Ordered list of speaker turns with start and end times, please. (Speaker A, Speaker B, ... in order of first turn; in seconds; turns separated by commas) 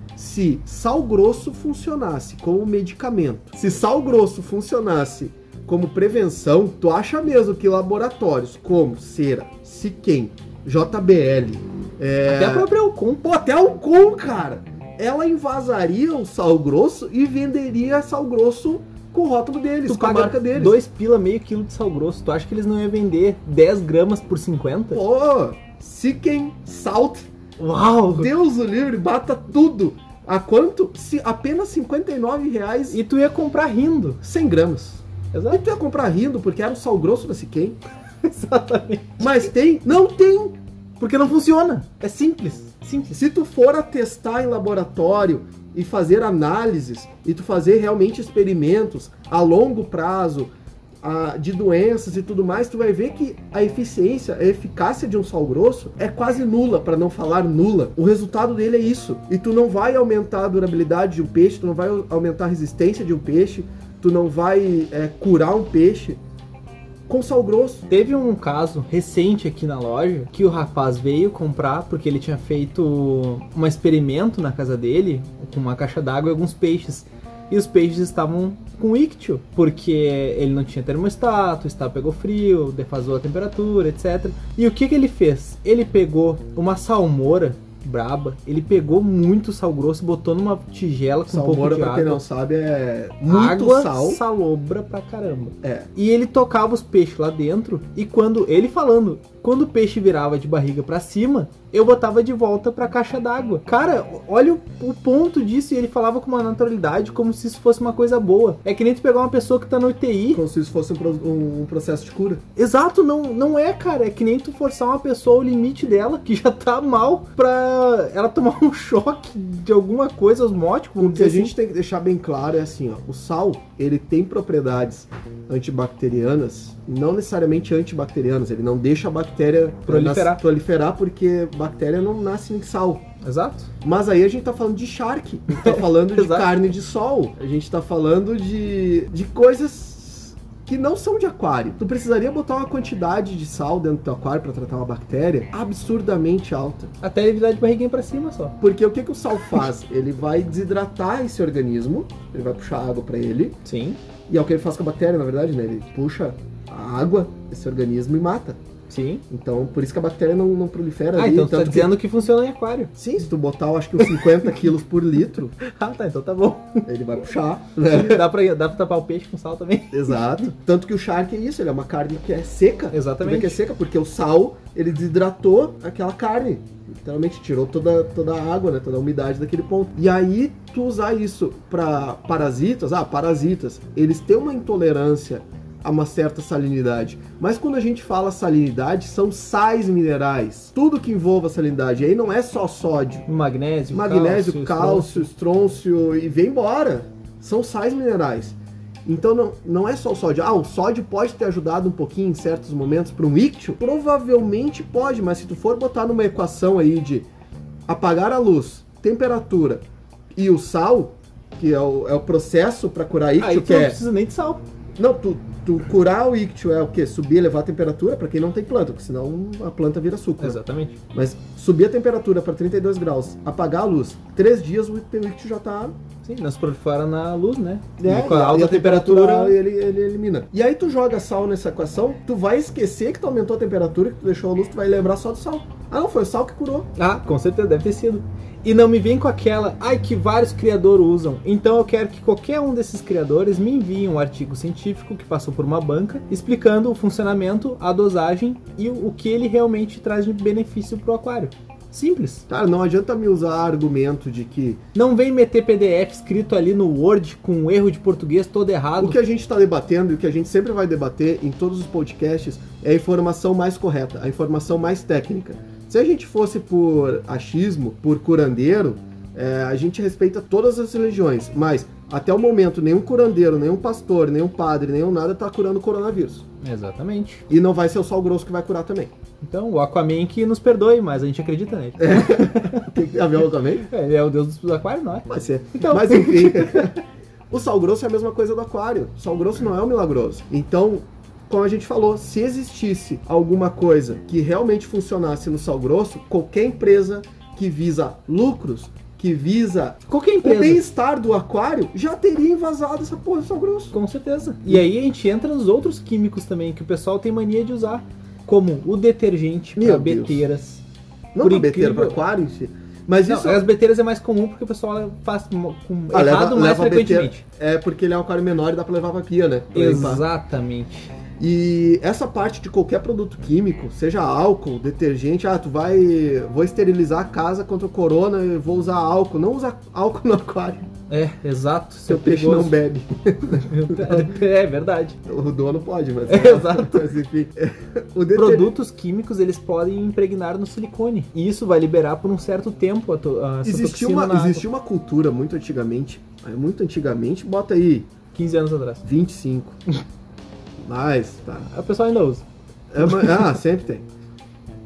Speaker A: 0.2-12.7, Speaker B: 12.3-13.2, Speaker A: 13.2-20.8, Speaker B: 19.9-25.0, Speaker A: 24.9-27.3, Speaker B: 27.6-28.3, Speaker A: 28.1-33.0, Speaker B: 32.9-34.2, Speaker A: 34.2-37.8, Speaker B: 35.3-35.6, Speaker B: 38.2-39.4, Speaker A: 39.2-40.6, Speaker B: 41.0-43.2, Speaker A: 43.1-50.5, Speaker A: 51.0-66.2, Speaker A: 67.1-67.9, Speaker B: 67.9-92.2, Speaker A: 91.3-94.2, Speaker B: 93.3-110.4, Speaker A: 95.6-95.9, Speaker A: 110.3-112.4, Speaker B: 112.6-121.5, Speaker A: 121.0-133.1, Speaker B: 129.9-130.4, Speaker B: 133.2-133.7, Speaker A: 133.8-146.9, Speaker B: 135.5-136.5, Speaker B: 147.0-148.6, Speaker A: 148.6-153.6, Speaker B: 153.7-154.0, Speaker A: 154.3-158.6, Speaker B: 158.9-159.2, Speaker A: 159.3-161.9, Speaker B: 161.2-162.9, Speaker A: 163.0-165.6, Speaker B: 164.0-164.4, Speaker B: 165.6-166.9, Speaker A: 166.9-168.2, Speaker B: 167.8-170.2, Speaker A: 169.9-193.3, Speaker B: 172.9-173.6, Speaker B: 193.3-195.3, Speaker A: 193.9-207.3, Speaker A: 207.9-209.8, Speaker A: 210.3-214.0, Speaker B: 213.4-214.6, Speaker A: 215.0-220.6, Speaker B: 220.4-221.0, Speaker A: 221.1-226.0, Speaker B: 226.2-229.6, Speaker A: 228.0-236.9, Speaker B: 237.0-252.4, Speaker A: 252.5-254.8, Speaker B: 254.9-259.2, Speaker A: 259.0-276.4, Speaker B: 276.6-277.4, Speaker A: 277.5-279.1, Speaker B: 279.4-282.9, Speaker A: 282.0-283.9, Speaker B: 283.8-286.9, Speaker A: 285.3-303.9, Speaker B: 300.1-300.8, Speaker B: 303.9-310.8, Speaker A: 309.8-310.4, Speaker A: 311.4-313.7, Speaker B: 311.4-312.2, Speaker B: 313.3-317.4, Speaker A: 316.1-320.2, Speaker B: 319.8-321.1, Speaker A: 321.4-330.9, Speaker B: 331.1-332.8, Speaker A: 332.1-334.4, Speaker B: 333.6-335.2, Speaker A: 335.3-338.8, Speaker B: 336.3-337.1, Speaker B: 338.4-344.7, Speaker A: 343.6-348.1, Speaker B: 348.4-349.0, Speaker A: 349.0-349.8, Speaker A: 350.8-351.7, Speaker B: 351.7-352.4, Speaker A: 352.9-354.1